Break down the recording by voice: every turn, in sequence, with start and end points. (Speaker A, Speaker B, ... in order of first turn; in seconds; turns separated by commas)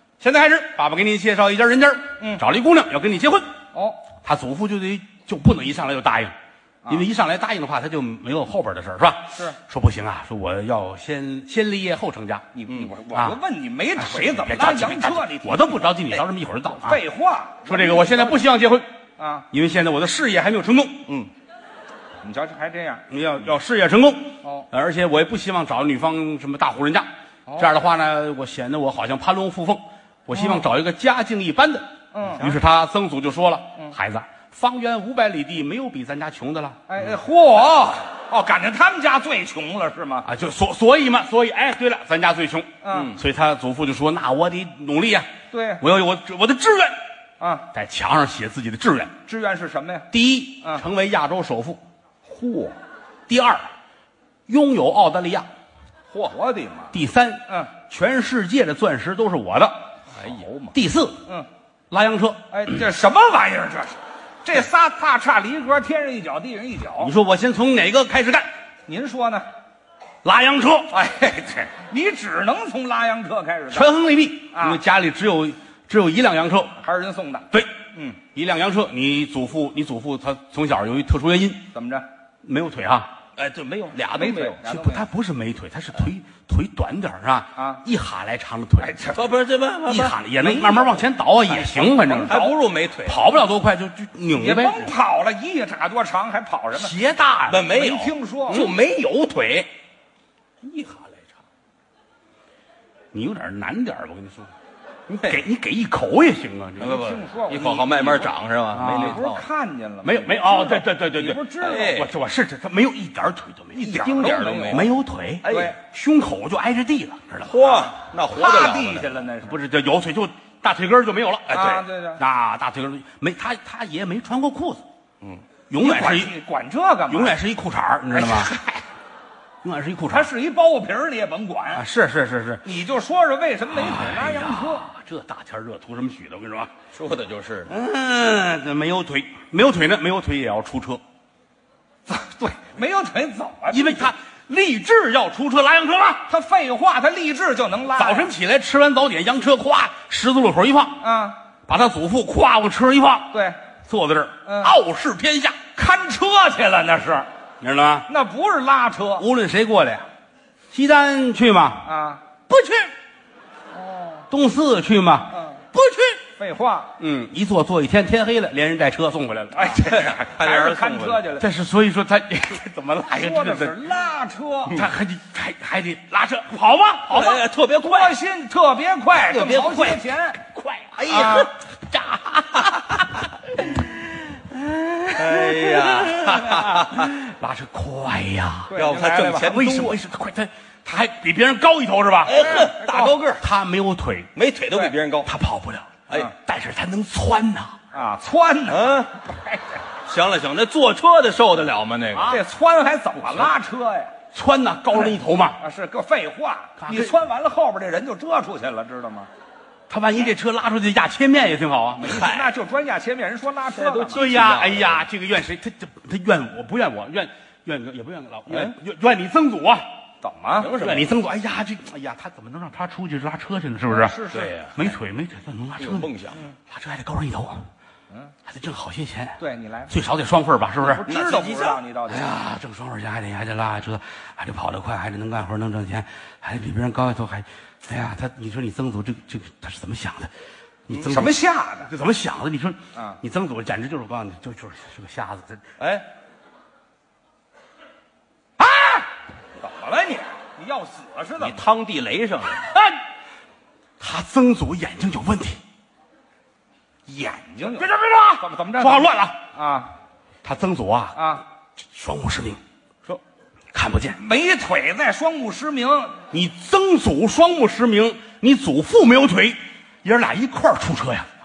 Speaker A: 0.2-3.5, Speaker B: 3.7-4.0, Speaker A: 4.2-6.3, Speaker A: 6.9-12.5, Speaker B: 12.5-15.9, Speaker A: 13.1-13.4, Speaker A: 14.0-17.0, Speaker B: 16.8-18.4, Speaker A: 17.6-18.9, Speaker B: 19.2-19.5, Speaker A: 19.5-21.1, Speaker B: 22.2-23.1, Speaker A: 23.1-37.0, Speaker B: 24.4-24.7, Speaker B: 27.5-27.7, Speaker B: 30.3-30.7, Speaker B: 32.1-32.5, Speaker B: 36.9-40.3, Speaker A: 40.2-47.0, Speaker B: 42.8-43.2, Speaker B: 45.5-45.8, Speaker B: 47.4-47.7, Speaker A: 47.7-49.1, Speaker B: 49.3-50.1, Speaker A: 50.1-51.8, Speaker B: 52.2-52.8, Speaker A: 53.3-53.7, Speaker A: 54.5-55.5, Speaker B: 56.1-57.0, Speaker A: 56.9-59.9, Speaker B: 57.5-57.7, Speaker B: 60.1-61.5, Speaker A: 60.7-61.2, Speaker A: 61.9-62.8, Speaker B: 62.5-67.1, Speaker A: 67.0-68.5, Speaker B: 68.9-69.5, Speaker A: 70.2-70.9, Speaker B: 70.9-74.0, Speaker A: 73.7-76.8, Speaker B: 74.5-74.8, Speaker B: 76.8-78.2, Speaker A: 78.3-81.7, Speaker B: 81.7-82.1, Speaker A: 82.4-83.2, Speaker C: 83.4-84.5, Speaker B: 84.1-85.1, Speaker A: 84.2-89.0, Speaker B: 87.6-87.8, Speaker B: 88.8-89.2, Speaker C: 89.1-90.2, Speaker A: 89.8-92.5, Speaker B: 90.4-92.5, Speaker C: 92.2-93.2, Speaker A: 93.0-94.9, Speaker B: 94.3-97.0, Speaker A: 96.7-97.7, Speaker C: 97.5-99.7, Speaker B: 97.7-98.7, Speaker C: 100.6-101.2, Speaker A: 103.1-104.5, Speaker A: 105.1-107.0, Speaker C: 106.8-109.4, Speaker B: 106.8-112.0, Speaker A: 108.7-109.2, Speaker A: 110.0-114.1, Speaker C: 111.6-112.1, Speaker B: 113.7-114.9, Speaker C: 113.8-114.9, Speaker A: 114.7-117.7, Speaker C: 115.4-115.8, Speaker B: 115.5-115.8, Speaker C: 117.5-119.2, Speaker B: 117.6-119.6, Speaker A: 119.4-124.8, Speaker C: 121.5-121.8, Speaker B: 121.5-122.2, Speaker A: 125.7-126.3, Speaker B: 125.8-127.4, Speaker A: 127.1-128.6, Speaker B: 128.1-128.8, Speaker A: 129.6-130.3, Speaker B: 130.1-131.8, Speaker A: 131.7-132.7, Speaker B: 132.6-134.9, Speaker A: 133.7-136.7, Speaker C: 136.9-137.7, Speaker A: 137.7-141.0, Speaker B: 142.1-144.1, Speaker A: 143.7-146.3, Speaker B: 146.3-148.3, Speaker A: 148.0-151.0, Speaker B: 151.0-151.4, Speaker A: 151.7-153.3, Speaker B: 153.3-153.6, Speaker A: 153.8-155.6, Speaker B: 154.5-154.8, Speaker B: 155.8-157.3, Speaker A: 157.6-158.1, Speaker B: 158.1-159.3, Speaker A: 159.2-160.1, Speaker A: 160.7-161.9, Speaker B: 161.8-162.2, Speaker A: 162.5-162.9, Speaker B: 163.7-164.3, Speaker A: 164.3-166.2, Speaker B: 165.3-165.7, Speaker B: 166.4-166.9, Speaker A: 167.0-169.8, Speaker B: 169.5-171.5, Speaker C: 169.8-171.3, Speaker A: 171.4-173.8, Speaker B: 173.1-174.8, Speaker A: 174.7-177.4, Speaker C: 177.1-178.2, Speaker B: 177.8-180.4, Speaker C: 179.3-180.0, Speaker A: 179.4-179.8, Speaker A: 180.5-188.8, Speaker C: 181.0-181.5, Speaker B: 181.1-181.5, Speaker C: 185.1-187.1, Speaker B: 188.7-189.6, Speaker C: 188.7-190.0, Speaker A: 189.3-192.4, Speaker C: 192.2-193.4, Speaker B: 192.3-193.2, Speaker A: 193.4-194.3, Speaker C: 194.4-195.3, Speaker A: 195.2-197.8, Speaker B: 197.9-199.8, Speaker C: 198.7-199.1, Speaker C: 200.1-202.4, Speaker A: 202.2-202.4, Speaker B: 202.3-204.1, Speaker A: 204.3-205.6, Speaker B: 205.6-209.3, Speaker A: 206.8-207.2, Speaker A: 209.9-212.3, Speaker B: 212.0-214.3, Speaker C: 212.0-212.5, Speaker C: 213.8-215.1, Speaker A: 214.1-219.9, Speaker C: 218.5-218.8, Speaker B: 220.2-220.7, Speaker C: 220.6-221.1, Speaker A: 220.8-224.2, Speaker B: 223.9-224.7, Speaker C: 224.3-224.9, Speaker A: 224.7-226.1, Speaker C: 225.8-226.4, Speaker A: 226.7-227.7, Speaker A: 228.5-231.0, Speaker B: 229.4-229.9, Speaker B: 230.8-232.3, Speaker C: 231.1-231.8, Speaker A: 232.1-240.3, Speaker A: 240.9-245.7, Speaker B: 240.9-241.9, Speaker B: 242.9-243.2, Speaker C: 245.8-246.1, Speaker B: 248.6-249.1, Speaker B: 249.6-251.6, Speaker C: 251.4-252.7, Speaker A: 252.6-253.0, Speaker A: 254.0-255.6, Speaker B: 257.1-259.9, Speaker A: 257.8-259.4, Speaker A: 260.4-262.6, Speaker B: 261.2-261.4, Speaker A: 263.7-264.2, Speaker B: 264.1-266.2, Speaker A: 266.3-271.3